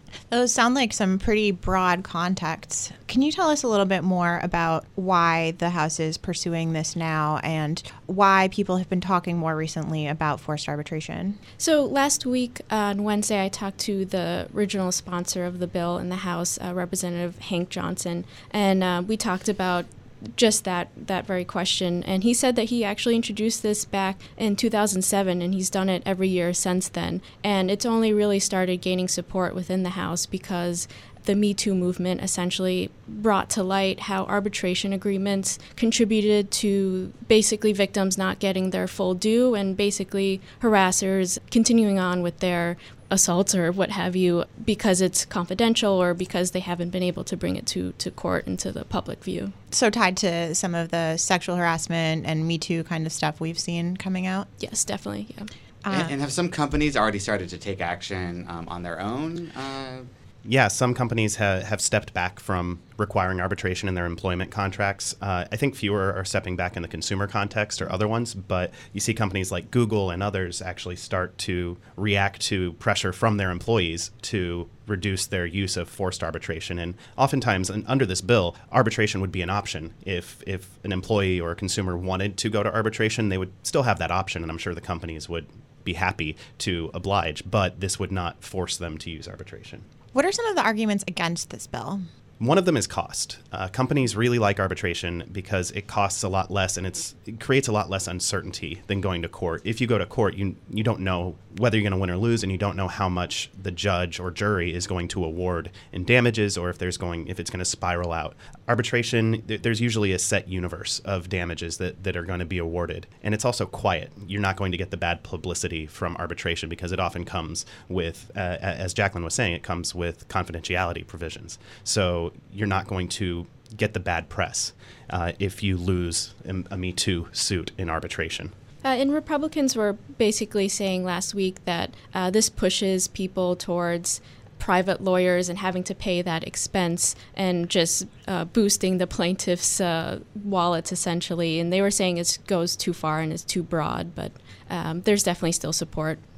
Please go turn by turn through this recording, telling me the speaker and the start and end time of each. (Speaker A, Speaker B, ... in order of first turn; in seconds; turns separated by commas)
Speaker A: 0.3-11.4, Speaker B: 11.6-49.5, Speaker A: 49.7-54.5, Speaker B: 54.6-55.5, Speaker A: 55.8-56.1, Speaker C: 55.9-60.0, Speaker D: 60.4-89.8, Speaker A: 90.1-92.0, Speaker D: 92.4-128.5, Speaker B: 128.8-146.2